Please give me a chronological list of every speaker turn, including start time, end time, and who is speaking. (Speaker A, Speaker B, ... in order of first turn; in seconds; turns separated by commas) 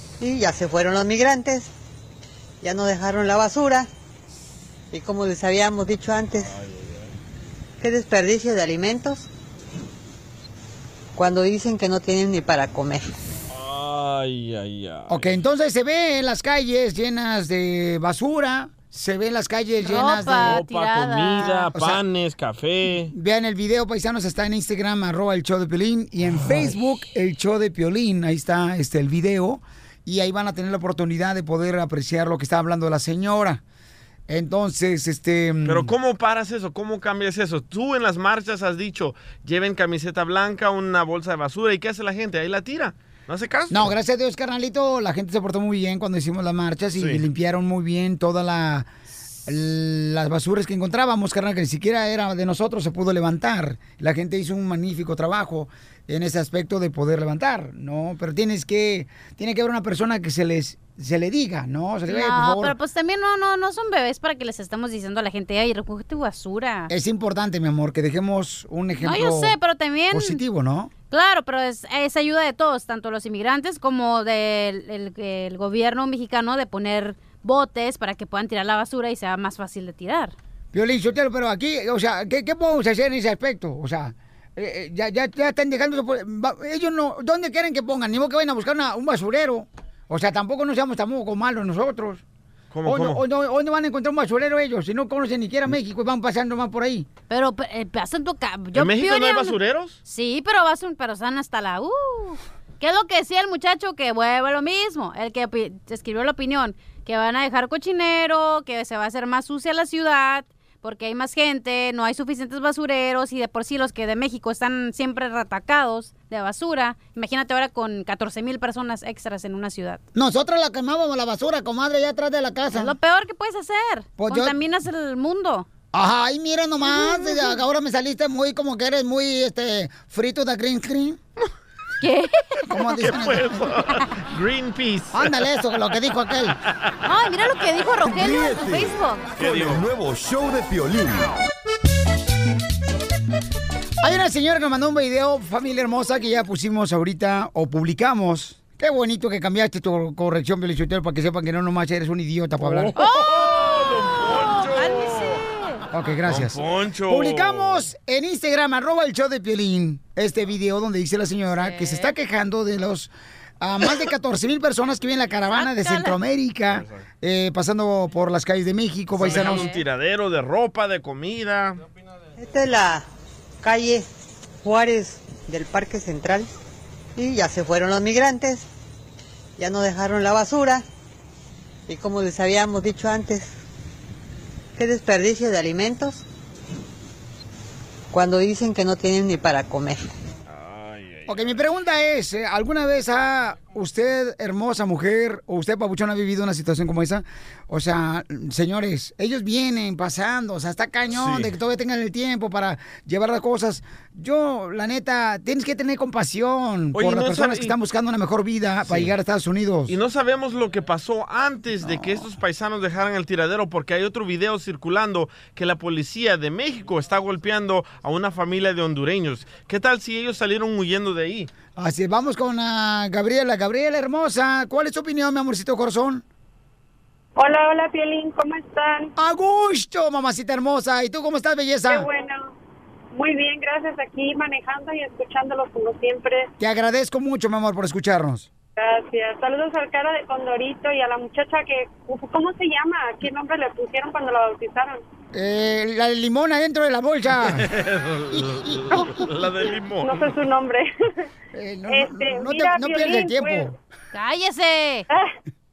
Speaker A: 0.2-1.7, Speaker A: 2.6-3.9, Speaker A: 4.9-6.5, Speaker B: 6.4-7.1, Speaker A: 7.8-9.3, Speaker A: 11.2-13.1, Speaker B: 13.5-15.3, Speaker C: 15.1-20.6, Speaker D: 19.8-21.7, Speaker B: 20.4-23.1, Speaker C: 21.7-22.0, Speaker C: 23.1-33.6, Speaker B: 26.4-26.7, Speaker C: 34.3-35.9, Speaker B: 35.6-43.9, Speaker C: 43.7-48.9, Speaker B: 47.0-47.2, Speaker C: 49.5-62.8, Speaker D: 62.1-66.9, Speaker C: 66.9-69.6, Speaker D: 69.0-70.4, Speaker C: 70.1-70.9, Speaker D: 71.1-80.3, Speaker C: 80.7-92.2, Speaker B: 92.7-93.2, Speaker C: 92.9-97.1, Speaker D: 97.3-120.0, Speaker B: 98.7-100.0, Speaker C: 120.1-123.0, Speaker D: 122.7-125.7, Speaker C: 124.2-124.6, Speaker C: 125.9-131.2, Speaker D: 126.8-127.6, Speaker D: 132.0-132.8, Speaker C: 132.7-133.8, Speaker B: 133.0-135.5, Speaker C: 135.1-136.6, Speaker D: 137.1-139.3, Speaker E: 138.1-141.3, Speaker B: 139.4-139.9, Speaker C: 144.0-153.0, Speaker B: 152.6-155.4, Speaker D: 153.0-155.8, Speaker C: 155.9-169.7, Speaker B: 156.2-157.9, Speaker D: 161.6-162.2, Speaker D: 165.5-166.2, Speaker B: 166.7-167.0, Speaker B: 169.2-171.8, Speaker D: 169.2-169.8, Speaker A: 172.3-173.1, Speaker A: 173.6-174.1, Speaker A: 174.6-176.5, Speaker A: 177.2-178.7, Speaker A: 179.6-180.8, Speaker A: 181.9-183.6, Speaker A: 184.8-186.2, Speaker A: 188.1-190.0, Speaker B: 190.5-191.6, Speaker C: 191.3-210.0, Speaker B: 201.1-201.5, Speaker B: 206.9-207.7, Speaker B: 208.8-209.1, Speaker B: 209.9-221.5, Speaker C: 221.8-226.2, Speaker F: 227.4-229.1, Speaker C: 229.2-232.1, Speaker F: 231.9-232.5, Speaker F: 233.1-236.5, Speaker C: 236.6-238.5, Speaker F: 238.8-245.0, Speaker C: 245.3-247.7, Speaker B: 247.4-250.4, Speaker C: 248.3-249.1, Speaker F: 250.0-250.9, Speaker C: 251.5-253.7, Speaker F: 251.9-253.7, Speaker D: 254.1-255.1